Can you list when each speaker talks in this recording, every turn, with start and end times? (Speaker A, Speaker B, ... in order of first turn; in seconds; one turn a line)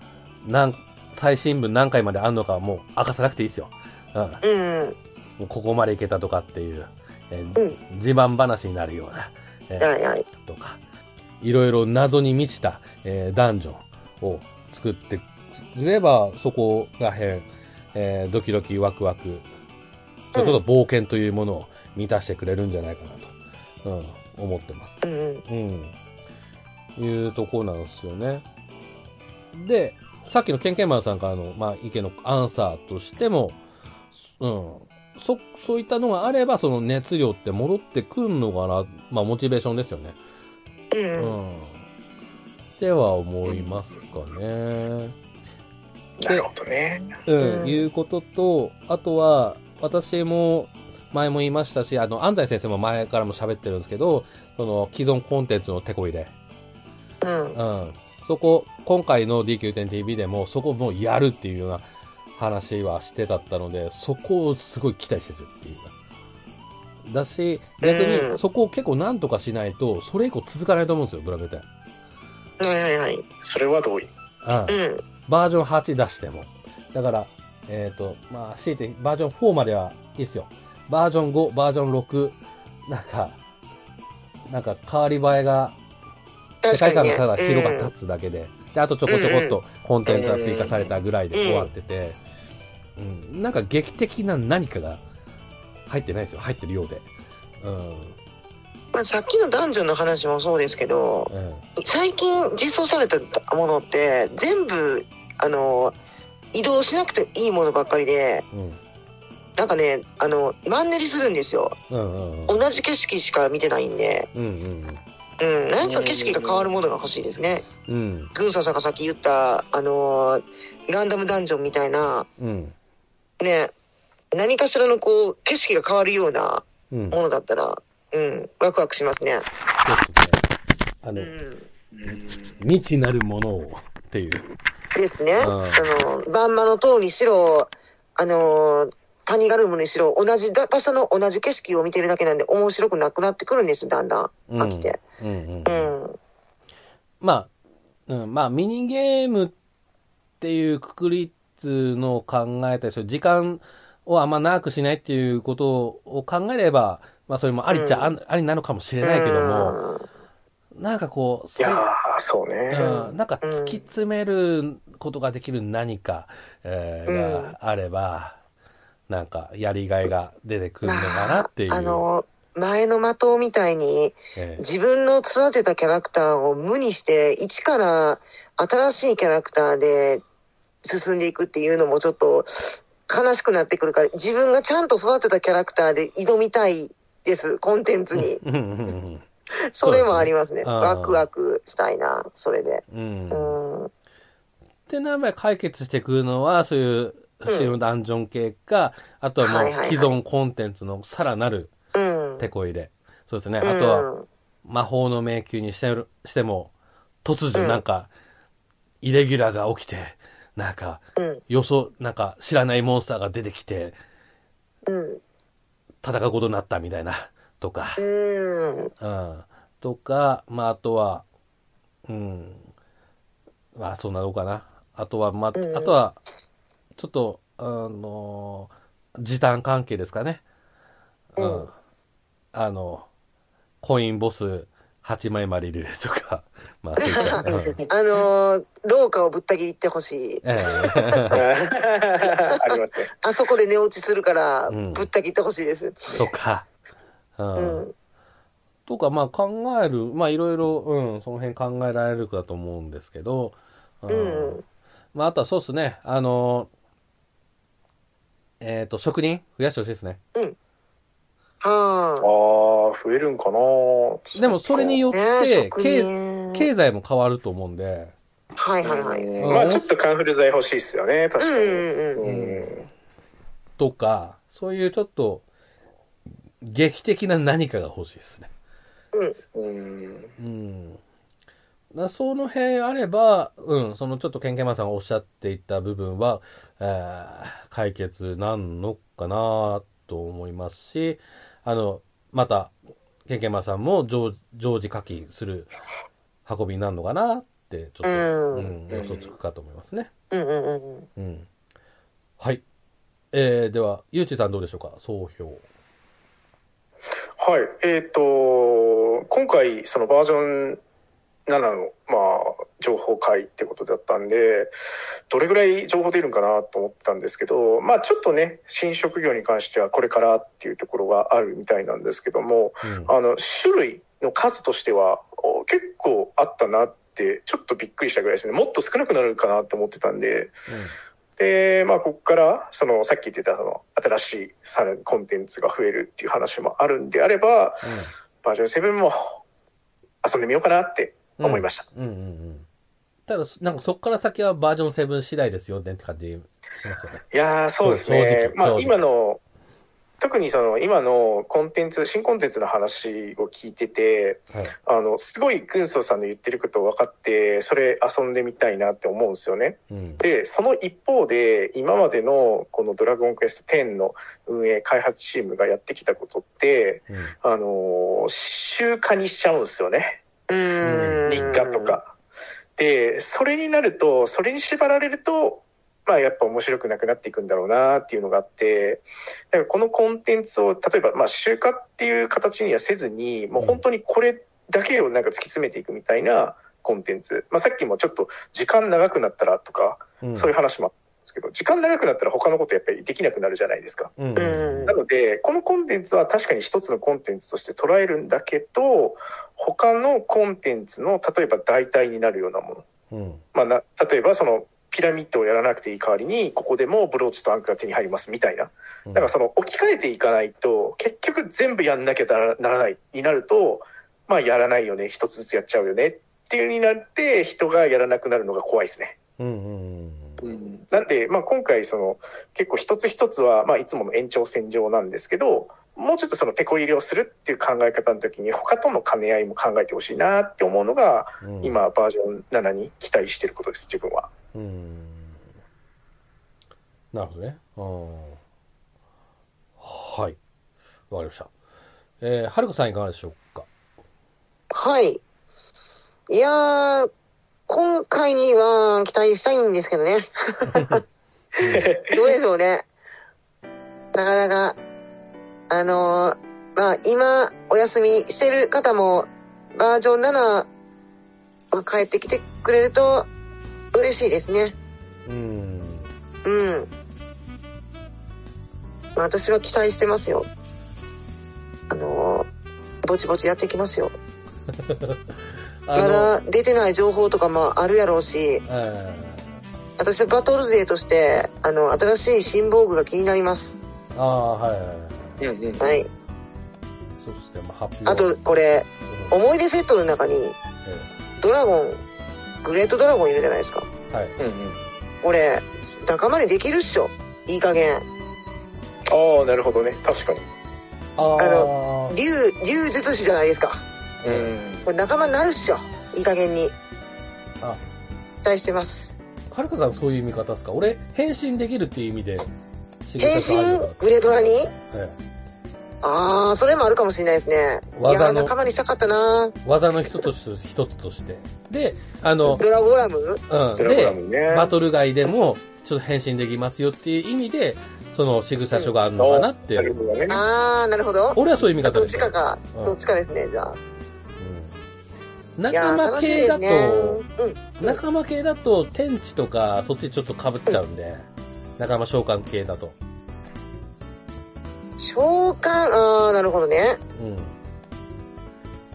Speaker A: 0.4-4.4
Speaker B: 4.4-5.0
Speaker A: 5.4-10.8
Speaker B: 9.8-10.2
Speaker A: 11.4-19.4
Speaker A: 20.3-25.9
Speaker B: 20.3-20.6
Speaker B: 25.0-25.4
Speaker A: 26.9-28.4
Speaker A: 29.5-33.6
Speaker A: 34.1-40.2
Speaker B: 40.9-41.4
Speaker A: 41.2-41.8
Speaker A: 42.8-45.2
Speaker C: 46.2-47.1
Speaker A: 47.2-56.3
Speaker B: 47.4-47.9
Speaker B: 57.2-57.6
Speaker A: 57.5-61.8
Speaker A: 62.3-65.9
Speaker A: 67.0-71.7
Speaker B: 67.8-68.4
Speaker B: 72.6-73.2
Speaker C: 73.4-74.1
Speaker A: 74.4-83.4
Speaker B: 74.7-75.0
Speaker A: 84.5-85.8
Speaker B: 86.6-87.9
Speaker A: 86.7-92.2
Speaker B: 89.1-89.6
Speaker C: 90.0-90.8
Speaker B: 91.3-91.7
Speaker A: 93.0-95.0
Speaker A: 95.9-97.1
Speaker A: 97.6-98.2
Speaker B: 98.9-106.0
Speaker A: 101.3-101.6
Speaker B: 106.5-108.4
Speaker A: 108.5-108.8
Speaker B: 109.6-111.8
Speaker A: 111.9-112.6
Speaker B: 112.5-114.3
Speaker A: 114.3-115.0
Speaker B: 115.4-117.7
Speaker C: 115.8-116.7
Speaker A: 117.9-118.3
Speaker B: 118.3-122.3
Speaker A: 122.4-122.7
Speaker B: 123.4-123.7
Speaker B: 124.3-129.4
Speaker A: 126.9-127.2
Speaker A: 129.8-130.4
Speaker A: 131.0-131.3
Speaker B: 131.1-131.7
Speaker C: 131.9-132.6
Speaker A: 132.1-134.5
Speaker B: 134.9-145.0
Speaker A: 135.4-135.9
Speaker A: 144.5-145.9
Speaker B: 145.7-146.2
Speaker A: 147.2-147.5
Speaker A: 148.1-149.5
Speaker A: 150.4-159.8
Speaker B: 157.7-158.1
Speaker B: 159.0-160.0
Speaker A: 160.7-161.9
Speaker C: 161.6-162.9
Speaker A: 162.7-168.4
Speaker B: 162.8-163.8
Speaker B: 167.1-167.5
Speaker A: 169.1-172.1
Speaker B: 170.8-180.2
Speaker A: 174.3-174.6
Speaker B: 180.8-188.4
Speaker A: 188.1-189.2
Speaker B: 189.7-193.9
Speaker A: 189.8-191.2
Speaker A: 192.9-193.6
Speaker A: 194.9-201.7
Speaker B: 197.5-197.7
Speaker B: 199.4-200.1
Speaker B: 201.9-202.5
Speaker A: 202.4-204.1
Speaker B: 203.6-204.2
Speaker A: 204.6-206.7
Speaker A: 207.2-208.1
Speaker B: 207.5-207.8
Speaker A: 209.0-213.9
Speaker B: 211.2-211.4
Speaker B: 214.9-215.2
Speaker A: 216.0-218.0
Speaker B: 218.0-218.9
Speaker A: 219.0-221.2
Speaker A: 222.1-222.7
Speaker A: 223.8-226.2
Speaker B: 225.6-225.9
Speaker A: 226.9-230.4
Speaker A: 231.3-231.7
Speaker B: 231.4-231.7
Speaker A: 232.5-233.1
Speaker A: 233.8-237.8
Speaker B: 237.0-241.3
Speaker C: 237.4-237.9
Speaker A: 240.4-241.4
Speaker C: 241.3-243.1
Speaker B: 242.2-246.2
Speaker A: 244.7-245.1
Speaker A: 246.2-246.7
Speaker A: 247.4-247.8
Speaker B: 247.6-247.9
Speaker A: 248.9-254.6
Speaker B: 254.1-254.6
Speaker A: 255.1-256.7
Speaker A: 258.6-260.2
Speaker B: 261.6-262.3
Speaker C: 262.2-265.0
Speaker A: 264.4-268.1
Speaker B: 265.1-266.7
Speaker B: 268.6-269.6
Speaker C: 268.8-272.9
Speaker A: 269.4-269.8
Speaker B: 271.4-272.2
Speaker A: 272.2-272.7
Speaker A: 273.8-275.4
Speaker A: 276.6-278.5
Speaker C: 279.5-280.3
Speaker A: 280.4-281.0
Speaker A: 281.9-292.7
Speaker A: 293.2-295.7
Speaker A: 296.4-300.1
Speaker B: 298.0-298.7
Speaker C: 298.9-299.3
Speaker B: 300.3-301.1
Speaker A: 301.2-301.5
Speaker A: 302.4-302.6
Speaker A: 303.3-305.6
Speaker C: 307.4-310.8
Speaker C: 311.5-314.7
Speaker C: 315.3-330.6
Speaker A: 322.8-323.1
Speaker A: 330.7-330.9
Speaker C: 331.4-339.4
Speaker A: 337.8-338.1
Speaker C: 340.2-341.8
Speaker A: 341.4-342.7
Speaker A: 343.3-347.2
Speaker C: 347.3-349.4
Speaker A: 347.8-349.0
Speaker C: 350.2-370.2
Speaker A: 359.9-360.2
Speaker A: 367.1-367.3
Speaker B: 370.5-371.9
Speaker A: 370.8-371.5
Speaker C: 371.2-372.1
Speaker C: 372.8-402.9
Speaker A: 390.2-390.5
Speaker A: 394.2-395.0
Speaker B: 394.4-395.0
Speaker A: 403.1-403.4
Speaker C: 403.5-419.2
Speaker A: 409.1-409.3
Speaker A: 419.4-420.5
Speaker C: 420.4-434.3
Speaker A: 431.4-431.8
Speaker A: 434.5-435.4
Speaker A: 437.1-438.4
Speaker A: 439.8-440.4
Speaker A: 441.1-441.5
Speaker A: 442.2-443.7
Speaker B: 444.7-445.2
Speaker B: 446.3-447.1
Speaker B: 447.7-451.0
Speaker A: 450.7-451.0
Speaker A: 451.6-451.9
Speaker C: 451.6-452.2
Speaker B: 451.7-452.9
Speaker B: 454.1-454.8
Speaker B: 455.7-460.7
Speaker B: 461.7-463.3
Speaker B: 463.9-464.8
Speaker A: 465.2-466.1
Speaker B: 466.4-466.9
Speaker B: 469.1-470.5
Speaker B: 471.9-472.5
Speaker B: 473.0-474.1
Speaker A: 474.7-476.3
Speaker B: 475.9-478.6
Speaker A: 478.7-479.4
Speaker B: 480.0-483.7
Speaker A: 484.1-485.4
Speaker C: 485.4-486.0
Speaker B: 485.8-486.1
Speaker A: 487.2-488.3
Speaker B: 488.1-490.6
Speaker A: 489.1-489.3
Speaker A: 490.8-491.1
Speaker B: 491.4-492.0
Speaker B: 492.6-493.9
Speaker A: 494.1-494.4
Speaker C: 494.4-494.8
Speaker B: 495.2-498.1
Speaker C: 499.1-500.4
Speaker A: 501.2-502.1
Speaker B: 501.4-503.8
Speaker C: 504.2-504.9
Speaker A: 504.2-504.5
Speaker B: 504.8-506.7
Speaker B: 508.4-509.1
Speaker A: 509.5-512.5
Speaker A: 513.0-514.0
Speaker B: 513.2-514.7
Speaker A: 514.9-515.2
Speaker B: 516.0-519.6
Speaker A: 517.9-518.5
Speaker A: 519.6-522.6
Speaker B: 522.5-523.4
Speaker A: 523.5-530.0
Speaker C: 523.8-524.7
Speaker C: 529.2-530.4
Speaker B: 530.3-533.8
Speaker A: 531.3-533.0
Speaker A: 534.4-534.8
Speaker A: 535.6-537.2
Speaker B: 535.7-538.0
Speaker A: 537.8-541.2
Speaker A: 541.8-543.0
Speaker B: 545.0-547.0
Speaker A: 547.1-547.5